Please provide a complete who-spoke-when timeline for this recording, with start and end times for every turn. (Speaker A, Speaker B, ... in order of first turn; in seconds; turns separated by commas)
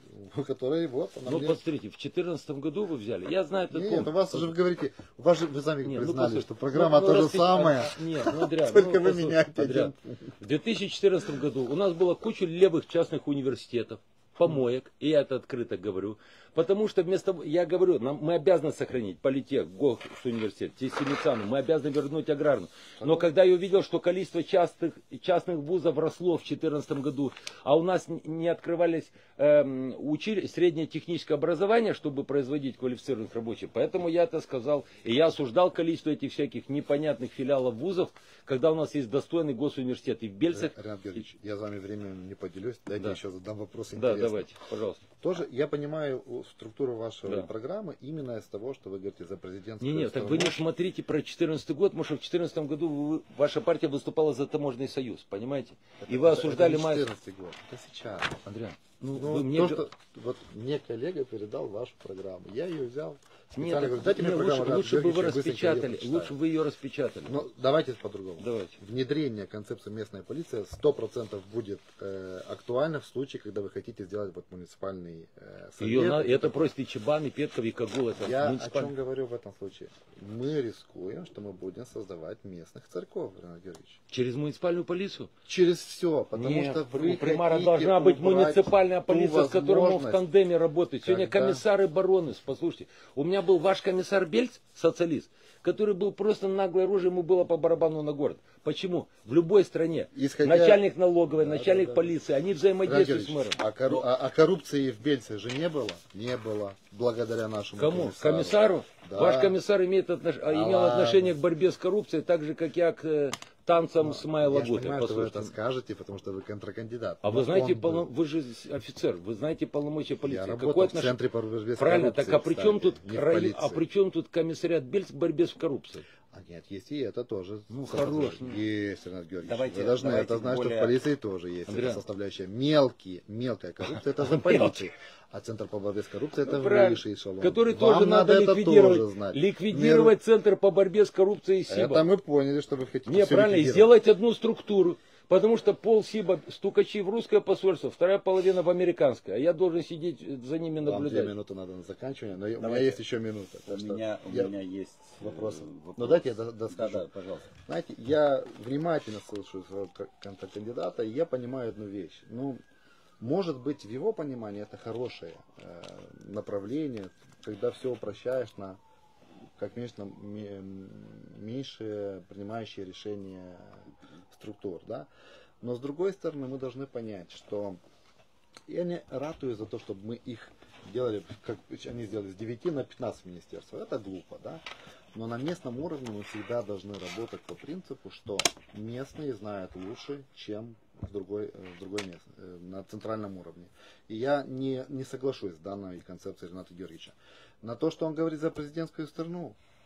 Speaker A: 0.1-1.6, Speaker B: 1.3-4.5, Speaker A: 3.7-10.4, Speaker B: 5.8-41.2, Speaker A: 23.0-23.3, Speaker A: 40.5-44.5, Speaker B: 44.0-45.0, Speaker A: 45.2-50.7, Speaker B: 49.8-57.1, Speaker A: 56.0-58.4, Speaker B: 58.5-59.8, Speaker A: 59.1-66.4, Speaker B: 63.5-67.4, Speaker A: 67.3-76.7, Speaker B: 68.4-68.8, Speaker B: 75.8-78.9, Speaker A: 78.2-84.0, Speaker B: 84.1-85.3, Speaker A: 85.5-90.2, Speaker B: 86.3-104.0, Speaker A: 91.0-91.6, Speaker A: 100.1-102.2, Speaker A: 102.8-109.6, Speaker B: 107.8-115.5, Speaker A: 110.5-111.4, Speaker A: 114.0-118.1, Speaker B: 117.2-121.2, Speaker A: 120.2-123.8, Speaker B: 121.8-126.1, Speaker A: 126.3-140.2, Speaker B: 127.7-128.6, Speaker C: 129.4-131.0, Speaker B: 131.7-132.0, Speaker B: 133.9-134.9, Speaker B: 136.4-142.1, Speaker A: 141.7-143.9, Speaker B: 143.1-151.3, Speaker A: 150.8-154.5, Speaker C: 152.6-153.0, Speaker C: 153.7-157.5, Speaker A: 155.2-157.1, Speaker A: 157.6-162.6, Speaker A: 163.2-168.8, Speaker A: 169.6-175.1, Speaker A: 175.6-177.8, Speaker A: 178.7-199.6